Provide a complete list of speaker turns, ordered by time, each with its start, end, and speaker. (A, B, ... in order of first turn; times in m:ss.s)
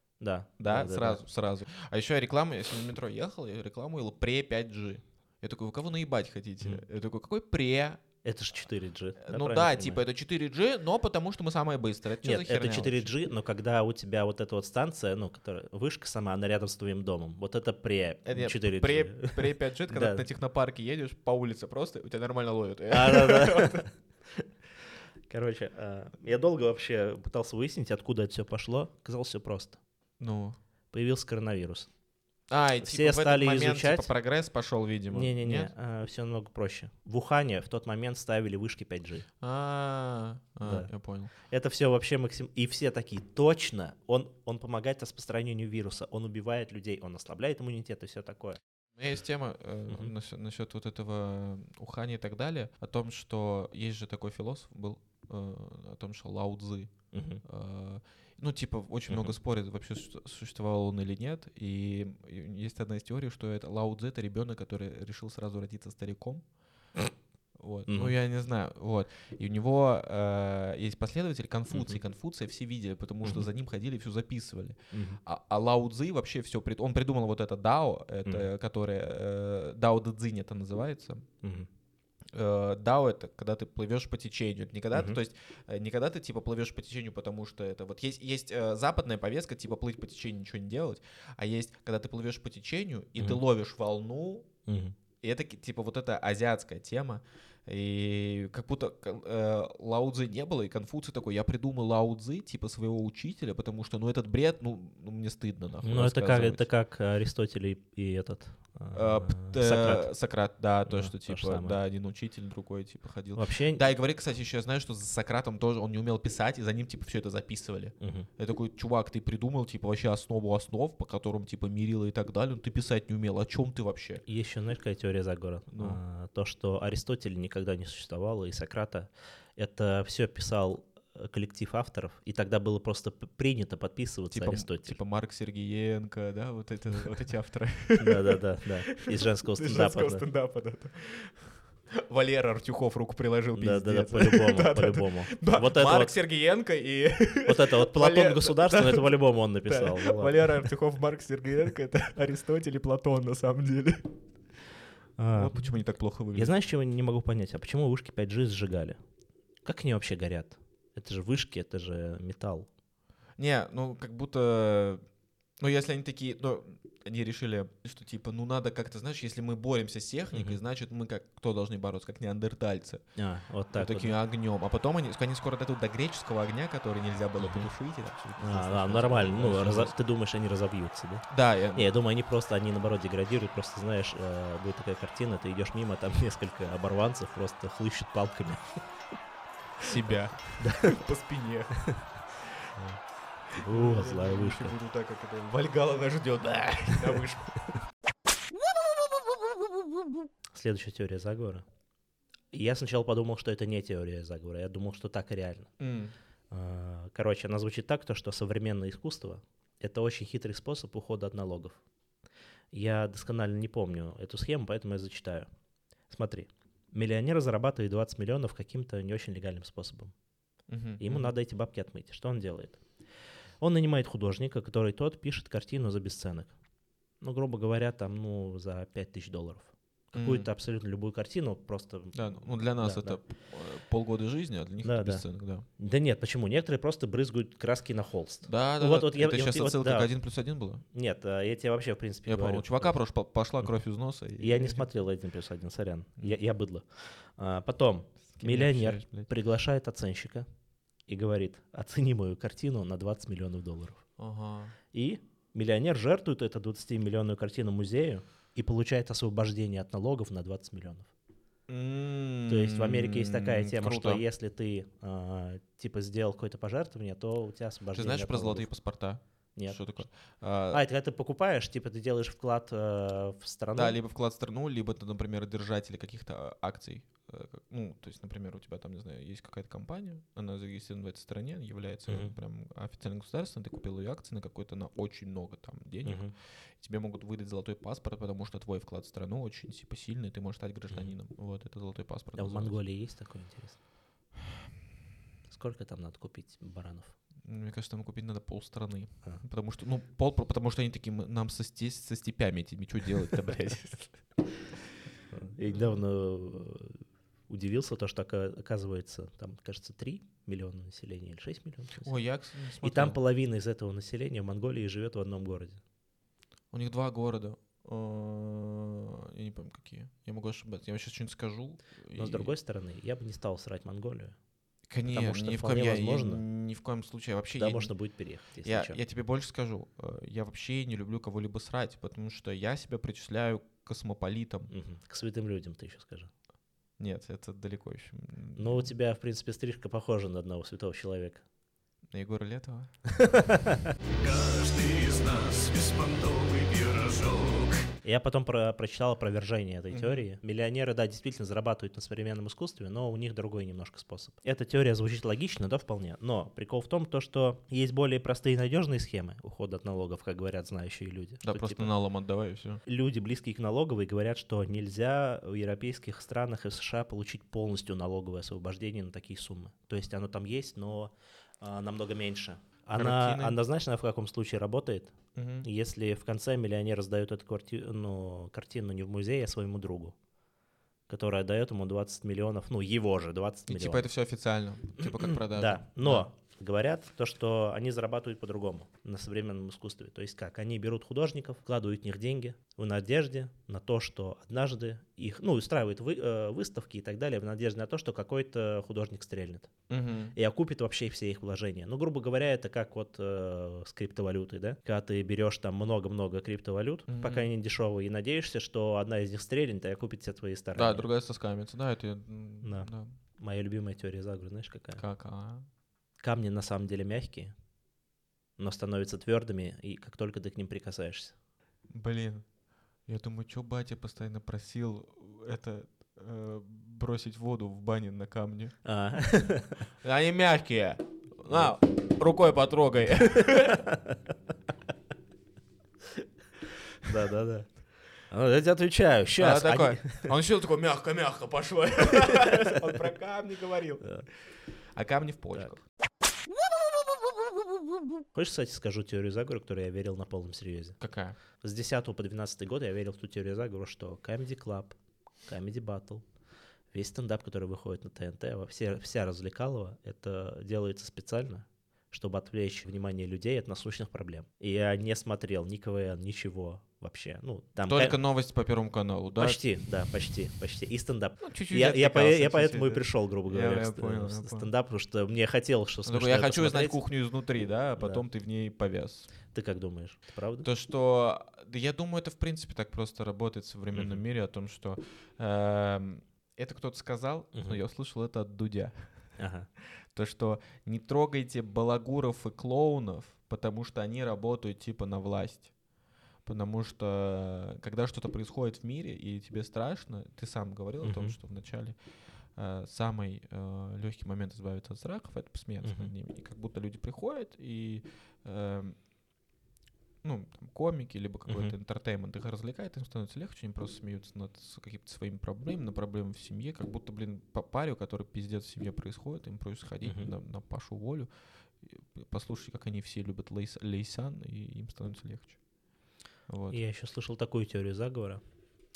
0:00.2-0:01.2 A
0:00.6-0:08.0 B
0:08.2-0:10.0 A
0:09.2-0:13.1 B
0:12.2-0:20.2 A
0:18.2-0:23.8 B
0:22.9-0:24.4 A
0:25.3-0:29.8 A
0:30.2-0:30.6 B
0:30.9-0:31.9 A
0:32.5-0:35.7 B
0:32.8-0:34.1 A
0:35.1-0:39.3 A
0:39.4-0:41.3 B
0:41.4-0:48.6 A
0:49.0-0:56.9 B
0:57.1-0:57.4 A
0:57.4-1:06.4 B
1:07.6-1:21.3 B
1:07.9-1:08.1 A
1:11.7-1:12.0 A
1:14.9-1:15.2 A
1:21.4-1:21.7 A
1:22.3-1:34.5 B
1:24.9-1:25.2 A
1:34.6-1:35.0 A
1:35.2-1:46.6 B
1:45.8-1:50.1 A
1:48.9-2:04.2 B
1:50.8-1:51.8 A
1:53.4-1:53.8 A
1:58.0-1:58.3 A
2:04.2-2:15.0 A
2:05.7-2:06.0 B
2:14.3-2:34.1 B
2:18.0-2:20.2 A
2:23.5-2:26.1 A
2:27.4-2:30.5 A
2:35.2-2:35.6 A
2:35.3-2:36.5 B
2:36.3-2:39.0 A
2:39.6-2:42.7 A
2:43.4-2:45.0 B
2:45.6-2:53.0 B
2:50.3-2:50.6 A
2:53.2-2:54.1 A
2:53.7-2:59.9 B
2:57.4-2:57.7 A
2:58.4-3:08.8 A
3:01.3-3:01.9 B
3:09.8-3:11.8 B
3:10.6-3:11.0 A
3:13.5-3:17.7 B
3:13.5-3:14.8 A
3:20.5-3:21.6 A
3:22.5-3:25.7 A
3:25.8-3:26.1 B
3:26.5-3:31.8 A
3:32.7-3:35.5 A
3:36.1-3:40.1 A
3:40.7-3:41.3 B
3:41.0-3:42.8 A
3:43.6-3:46.5 A
3:47.2-3:53.2 A
3:50.1-3:50.5 B
3:52.1-3:55.6 B
3:54.8-3:55.2 A
3:55.8-4:00.1 A
3:58.4-4:00.8 B
4:00.9-4:03.0 A
4:02.2-4:04.9 B
4:04.4-4:10.4 A
4:08.3-4:09.3 B
4:11.1-4:14.0 A
4:14.2-4:14.7 B
4:14.9-4:21.1 A
4:21.7-4:24.2 B
4:22.5-4:28.7 A
4:27.9-4:30.8 B
4:29.6-4:29.8 A
4:30.7-4:34.0 A
4:33.8-4:52.8 B
4:42.1-4:42.3 A
4:46.0-4:46.3 A
4:52.4-4:53.8 A
4:55.5-4:57.1 A
4:57.4-5:04.2 B
5:05.3-5:12.2 A
5:05.7-5:06.0 B
5:12.0-5:13.2 B
5:12.8-5:15.8 A
5:16.7-5:22.5 B
5:22.2-5:24.4 A
5:24.9-5:27.9 B
5:25.1-5:26.4 A
5:27.5-5:29.0 A
5:28.6-5:34.7 B
5:34.7-5:36.3 A
5:37.0-5:38.9 B
5:38.6-5:41.4 A
5:42.1-5:42.9 B
5:43.1-5:43.9 A
5:44.4-5:47.6 C
5:48.0-6:01.9 A
5:49.9-5:50.2 B
6:01.4-6:02.8 B
6:02.8-6:20.1 A
6:12.9-6:13.6 B
6:15.3-6:15.7 B
6:21.1-6:24.1 A
6:23.7-6:26.3 B
6:25.0-6:39.7 A
6:39.9-6:40.3 B
6:40.3-6:51.0 A
6:47.1-6:47.5 B
6:50.7-6:53.1 B
6:52.6-6:55.0 A
6:55.0-6:55.7 B
6:56.2-6:57.5 A
6:58.6-7:01.3 A
7:01.9-7:02.4 B
7:03.1-7:08.8 B
7:08.8-7:09.9 A
7:10.0-7:13.9 B
7:13.4-7:14.2 A
7:17.0-7:17.7 A
7:18.3-7:20.3 A
7:19.4-7:24.2 B
7:22.2-7:22.8 A
7:24.9-7:25.8 B
7:28.3-7:31.0 A
7:31.0-7:31.4 B
7:31.6-7:36.2 A
7:36.9-7:48.2 A
7:47.8-7:49.6 B
7:49.4-7:57.0 A
7:51.4-7:54.7 B
7:56.0-7:59.3 B
7:59.5-8:00.7 A
8:00.6-8:09.3 B
8:03.9-8:04.2 A
8:07.5-8:07.8 A
8:09.4-8:09.7 A
8:10.1-8:15.7 B
8:16.4-8:22.0 B
8:21.0-8:21.4 A
8:22.6-8:29.0 B
8:25.8-8:26.1 A
8:30.2-8:41.3 B
8:31.5-8:31.7 A
8:40.0-8:40.3 A
8:41.8-8:45.6 B
8:46.5-8:46.8 B
8:46.7-8:48.4 A